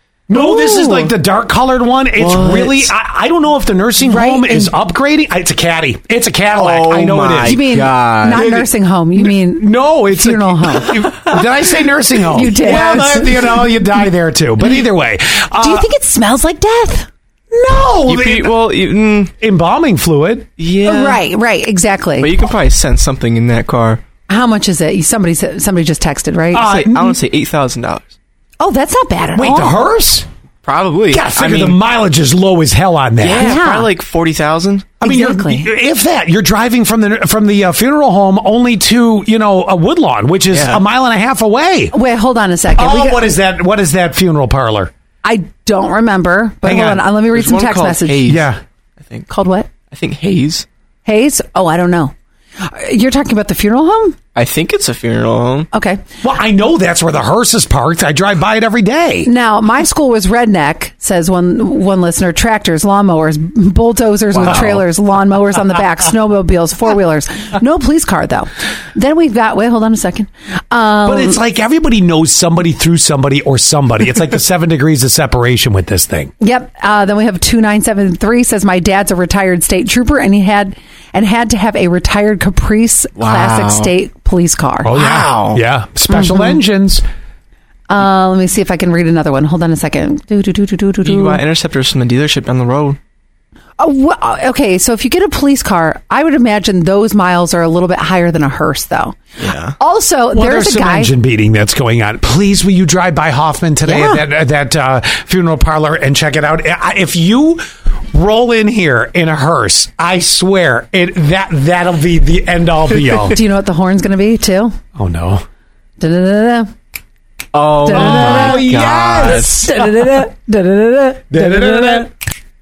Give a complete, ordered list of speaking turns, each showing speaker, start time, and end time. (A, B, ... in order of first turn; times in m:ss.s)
0:00.3-0:07.6 A
0:00.3-0:01.1 B
0:02.2-0:02.9 C
0:04.0-0:04.8 B
0:06.6-0:08.4 C
0:07.4-0:11.1 B
0:08.3-0:15.9 A
0:12.2-0:13.7 B
0:15.6-0:17.1 B
0:17.5-0:18.6 A
0:18.0-0:19.3 C
0:19.4-0:20.5 A
0:20.6-0:21.2 C
0:20.8-0:22.4 B
0:22.2-0:24.0 C
0:24.3-0:26.8 B
0:26.5-0:27.2 A
0:26.6-0:28.2 C
0:28.6-0:29.8 B
0:29.4-0:30.3 A
0:30.6-0:31.8 C
0:31.1-0:33.6 A
0:33.2-0:35.0 C
0:33.2-0:33.9 B
0:35.0-0:35.7 B
0:35.0-0:41.9 A
0:40.5-0:40.8 C
0:41.9-0:43.3 B
0:42.8-0:44.9 A
0:45.2-0:48.4 B
0:46.6-0:47.0 A
0:47.3-0:48.5 C
0:48.2-0:48.6 A
0:49.0-0:49.3 C
0:49.3-0:49.7 B
0:49.9-0:50.7 C
0:51.0-0:54.2 B
0:54.4-0:55.7 C
0:55.7-0:56.0 B
0:56.2-0:59.3 A
0:59.3-1:11.4 B
1:04.3-1:04.8 C
1:11.0-1:16.3 A
1:16.4-1:25.0 B
1:23.2-1:23.9 C
1:24.8-1:27.0 A
1:24.9-1:25.6 C
1:26.1-1:26.6 B
1:27.9-1:31.4 B
1:31.0-1:33.0 C
1:33.8-1:39.2 B
1:39.4-1:39.8 C
1:39.8-1:41.1 B
1:40.3-1:53.4 A
1:43.8-1:44.2 B
1:53.3-1:54.8 B
1:55.0-1:55.4 A
1:56.0-1:56.7 B
1:57.5-1:59.7 C
1:57.8-2:02.1 B
1:57.9-1:59.8 A
2:01.3-2:02.1 A